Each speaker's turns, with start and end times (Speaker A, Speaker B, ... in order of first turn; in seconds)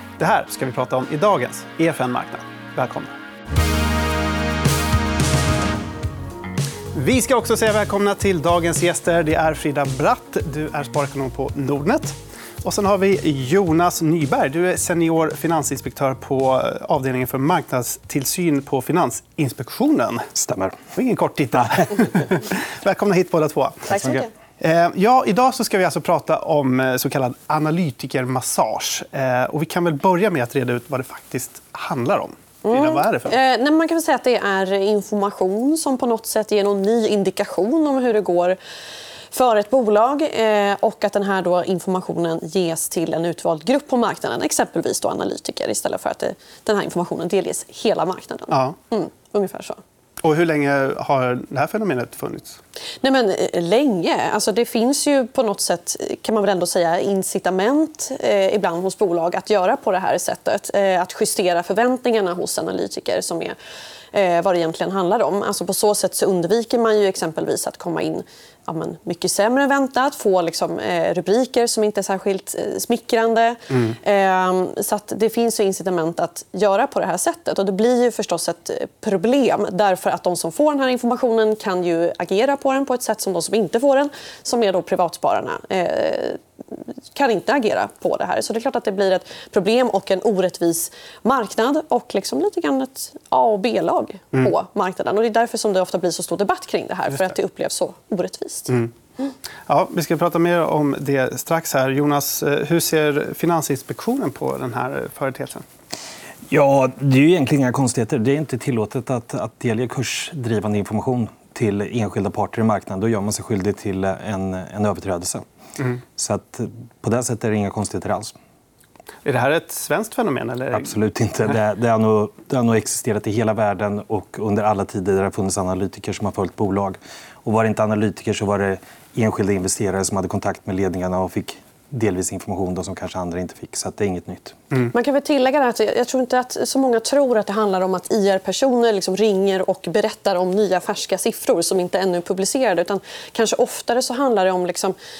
Speaker A: 0.2-3.1, 6.9-20.3, 20.9-24.0, 24.6-33.4, 48.5-48.8, 50.2-52.6, 73.7-74.0, 99.7-105.6, 119.2-120.9
Speaker B: 20.4-20.8, 23.9-24.2, 106.5-115.4, 116.2-118.3, 120.7-134.6
Speaker C: 23.9-24.3, 32.6-38.6, 39.3-49.8, 53.0-63.5, 64.1-98.7, 134.9-144.9